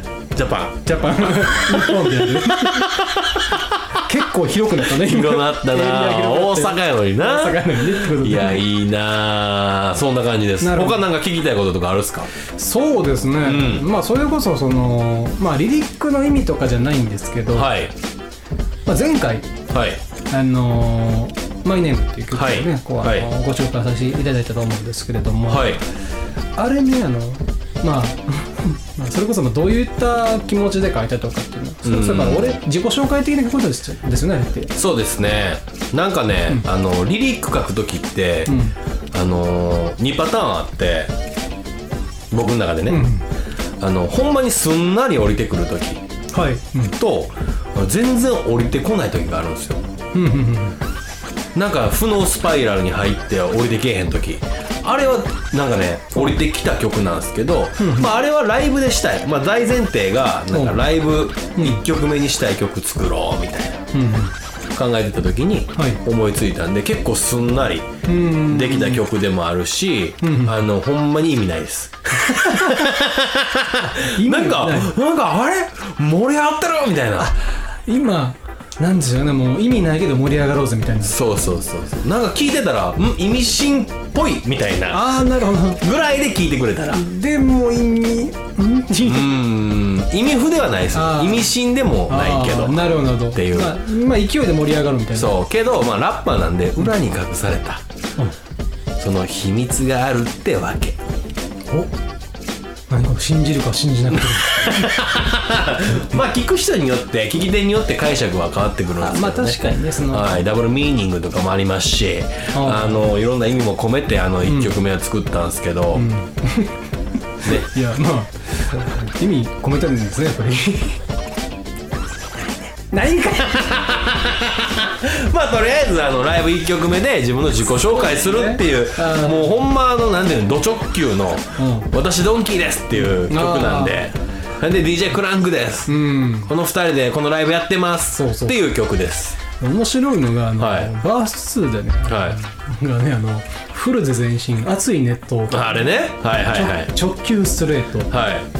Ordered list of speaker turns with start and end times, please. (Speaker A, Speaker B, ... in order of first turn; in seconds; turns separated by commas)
Speaker A: 0.3-3.8, Speaker B: 0.9-3.2, Speaker B: 4.0-8.6, Speaker A: 4.8-12.3, Speaker B: 10.6-11.0, Speaker B: 12.5-17.7, Speaker A: 13.4-13.9, Speaker A: 17.5-17.9, Speaker B: 18.9-19.5, Speaker A: 19.7-20.0, Speaker B: 20.3-25.8, Speaker A: 22.3-23.3, Speaker A: 25.5-25.8, Speaker B: 26.6-34.7, Speaker A: 31.9-32.6, Speaker A: 34.8-38.6, Speaker B: 38.5-38.8, Speaker A: 39.1-41.1, Speaker A: 42.3-43.0, Speaker B: 42.9-43.2, Speaker A: 43.8-46.0, Speaker B: 46.3-47.0, Speaker A: 47.0-49.8, Speaker B: 50.1-50.8, Speaker A: 51.5-63.8, Speaker B: 57.8-58.1, Speaker B: 60.5-60.8, Speaker B: 61.6-61.8, Speaker B: 63.9-64.3, Speaker A: 64.8-67.9, Speaker B: 68.1-69.0, Speaker A: 68.5-77.3, Speaker B: 70.2-70.6, Speaker B: 72.2-72.9, Speaker B: 73.9-74.9, Speaker B: 77.2-81.2, Speaker A: 81.0-85.2, Speaker B: 84.9-85.8, Speaker A: 85.7-87.1, Speaker B: 86.9-89.3, Speaker A: 89.0-93.8, Speaker B: 90.9-91.5, Speaker B: 92.1-95.4, Speaker A: 95.2-97.8, Speaker A: 99.0-101.0, Speaker B: 102.9-105.1, Speaker A: 104.3-116.1, Speaker B: 109.0-110.4, Speaker B: 112.5-113.1, Speaker B: 114.5-114.8, Speaker B: 115.9-116.8, Speaker B: 117.4-121.0, Speaker B: 122.8-123.7, Speaker A: 123.4-139.4, Speaker B: 127.7-129.5, Speaker B: 131.6-131.9, Speaker B: 133.0-134.0, Speaker B: 135.9-136.5, Speaker B: 138.1-138.6, Speaker B: 139.6-145.9, Speaker A: 140.6-140.9, Speaker A: 142.1-142.4, Speaker A: 145.5-146.9, Speaker B: 146.4-148.1, Speaker A: 148.1-148.5